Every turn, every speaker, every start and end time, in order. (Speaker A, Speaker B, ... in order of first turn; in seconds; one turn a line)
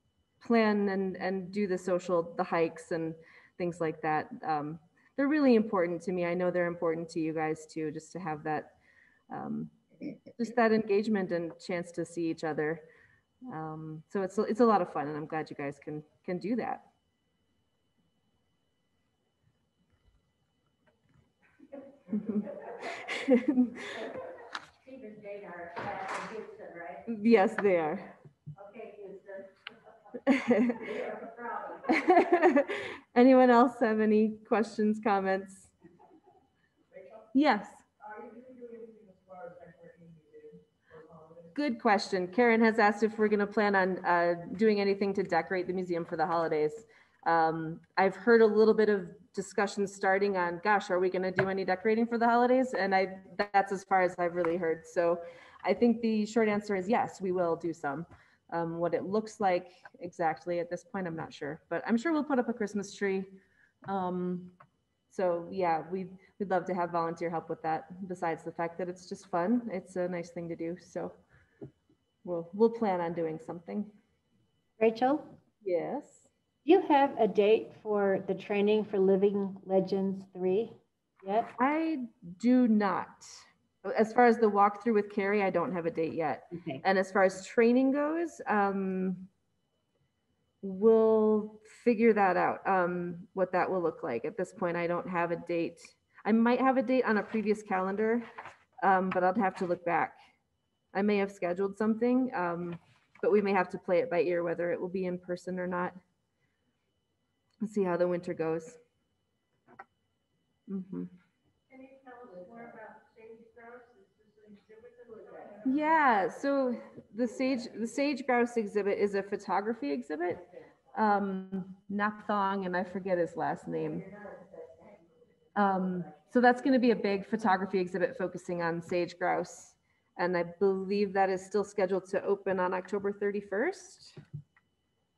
Speaker A: 0.4-8.7
Speaker A: 9.3-9.8
Speaker A: 10.3-12.8
Speaker A: 13.5-16.9
Speaker A: 23.1-23.7
Speaker B: 24.8-27.1
Speaker A: 27.1-28.1
Speaker B: 28.5-32.4
Speaker A: 30.3-30.8
Speaker A: 31.9-35.7
Speaker A: 37.3-37.8
Speaker B: 38.0-41.5
Speaker A: 41.5-64.5
Speaker A: 65.1-71.2
Speaker A: 72.2-73.9
Speaker C: 74.8-75.3
Speaker A: 75.6-76.3
Speaker C: 76.6-81.5
Speaker A: 81.6-89.3
Speaker C: 86.5-86.8
Speaker A: 90.6-98.2
Speaker A: 98.8-100.2
Speaker A: 100.9-106.0
Speaker A: 107.6-108.8
Speaker A: 110.7-111.1
Speaker B: 111.7-115.8
Speaker A: 115.6-124.1
Speaker B: 123.6-125.1
Speaker A: 125.5-134.2